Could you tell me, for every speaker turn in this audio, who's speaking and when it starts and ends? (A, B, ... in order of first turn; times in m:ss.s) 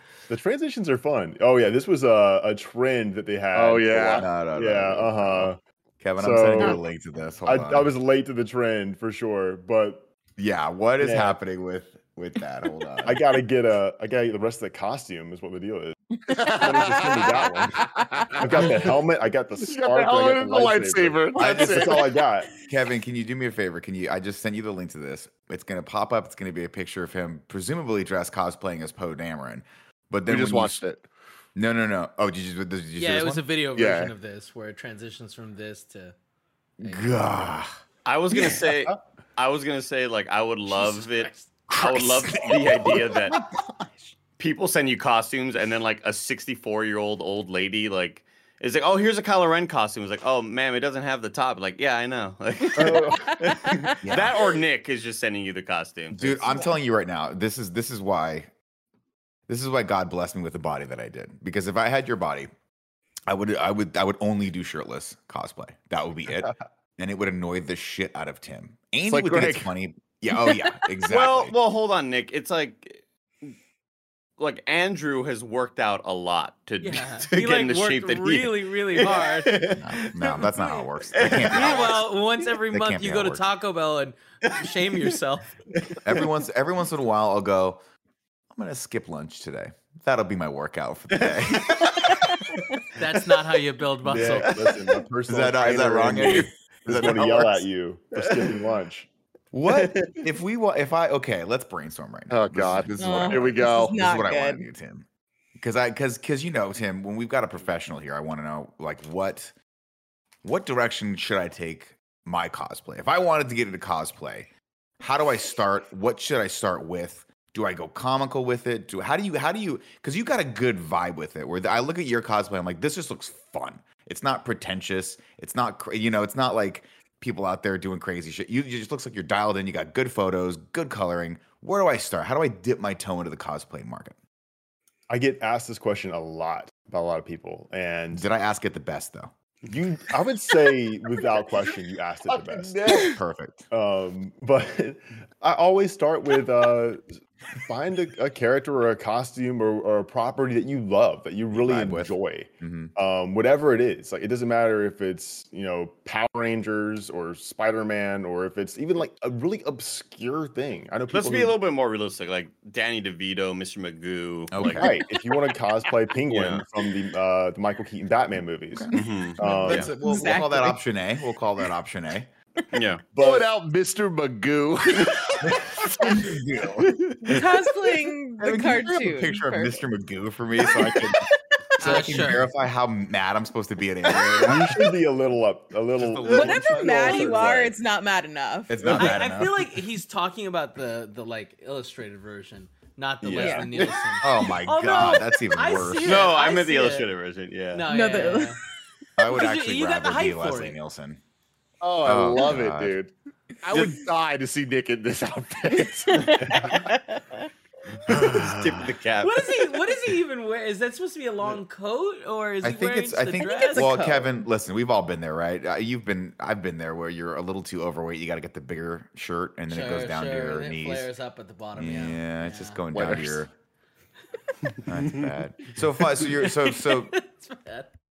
0:00.3-0:05.6 A
0:03.5-0:04.2 B
0:04.1-0:07.9 C
0:06.2-0:06.8 A
0:07.4-0:10.1 A
0:10.4-0:13.2 C
0:11.0-0:11.4 A
0:13.0-0:17.8 A
0:16.3-0:17.3 B
0:17.8-0:18.9 B
0:18.4-0:22.5 A
0:19.6-0:22.2 B
0:21.4-0:22.0 C
0:22.6-0:30.8 C
0:30.3-0:31.1 B
0:31.6-0:33.4 C
0:33.0-0:36.1 D
0:33.7-0:34.1 B
0:36.8-0:37.7 C
0:36.8-0:37.1 D
0:38.0-0:43.4 E
0:38.3-0:38.7 C
0:41.7-0:43.9 C
0:44.4-0:56.4 E
0:52.8-0:53.4 A
0:53.2-0:53.9 F
0:54.0-0:54.4 C
0:56.1-0:58.5 C
0:59.5-1:02.5 C
1:03.3-1:11.5 C
1:09.1-1:09.7 B
1:11.1-1:13.5 E
1:14.4-1:20.4 E
1:16.8-1:19.6 D
1:19.7-1:22.1 C
1:20.4-1:20.8 D
1:21.1-1:22.0 E
1:21.4-1:25.5 D
1:22.7-1:23.4 C
1:24.5-1:25.1 E
1:25.8-1:26.2 E
1:26.0-1:27.8 C
1:28.5-1:31.9 C
1:31.1-1:32.2 E
1:33.0-1:34.5 D
1:34.1-1:39.1 A
1:34.3-1:34.9 E
1:35.3-1:37.7 C
1:38.2-1:38.5 E
1:39.5-1:49.5 C
1:39.7-1:40.2 E
1:42.3-1:44.0 B
1:43.0-1:44.6 F
1:50.4-1:54.5 C
1:55.0-2:14.2 C
2:15.1-2:18.2 A
2:18.1-2:19.3 C
2:19.6-2:22.9 A
2:22.3-2:23.2 B
2:23.0-2:23.7 C
2:23.7-2:41.6 A
2:31.5-2:32.9 C
2:41.1-2:44.9 E
2:44.5-2:45.0 C
2:44.7-2:50.0 A
2:46.3-2:46.6 E
2:48.7-2:52.3 C
2:48.9-2:49.9 E
2:49.9-2:50.8 F
2:52.7-2:53.0 E
2:53.1-2:55.5 B
2:53.2-2:53.4 A
2:55.4-2:57.4 C
2:57.2-2:59.8 F
2:58.4-3:01.2 C
3:01.8-3:02.5 D
3:01.8-3:04.9 C
3:04.4-3:07.7 A
3:06.0-3:07.4 C
3:06.2-3:09.1 F
3:08.7-3:09.8 C
3:08.8-3:17.1 D
3:13.2-3:13.7 A
3:13.4-3:13.7 F
3:14.2-3:16.3 C
3:16.0-3:17.9 E
3:17.7-3:18.6 D
3:17.9-3:18.6 F
3:19.2-3:21.2 C
3:19.2-3:20.8 D
3:21.8-3:23.1 B
3:22.0-3:23.0 C
3:23.6-3:26.3 B
3:26.1-3:27.4 F
3:26.2-3:26.7 E
3:28.1-3:28.9 C
3:28.1-3:30.0 E
3:29.2-3:34.0 D
3:32.6-3:41.1 C
3:33.4-3:34.3 F
3:39.7-3:42.9 D
3:41.7-3:43.5 C
3:42.9-3:43.4 B
3:44.8-3:47.2 C
3:46.0-3:47.9 D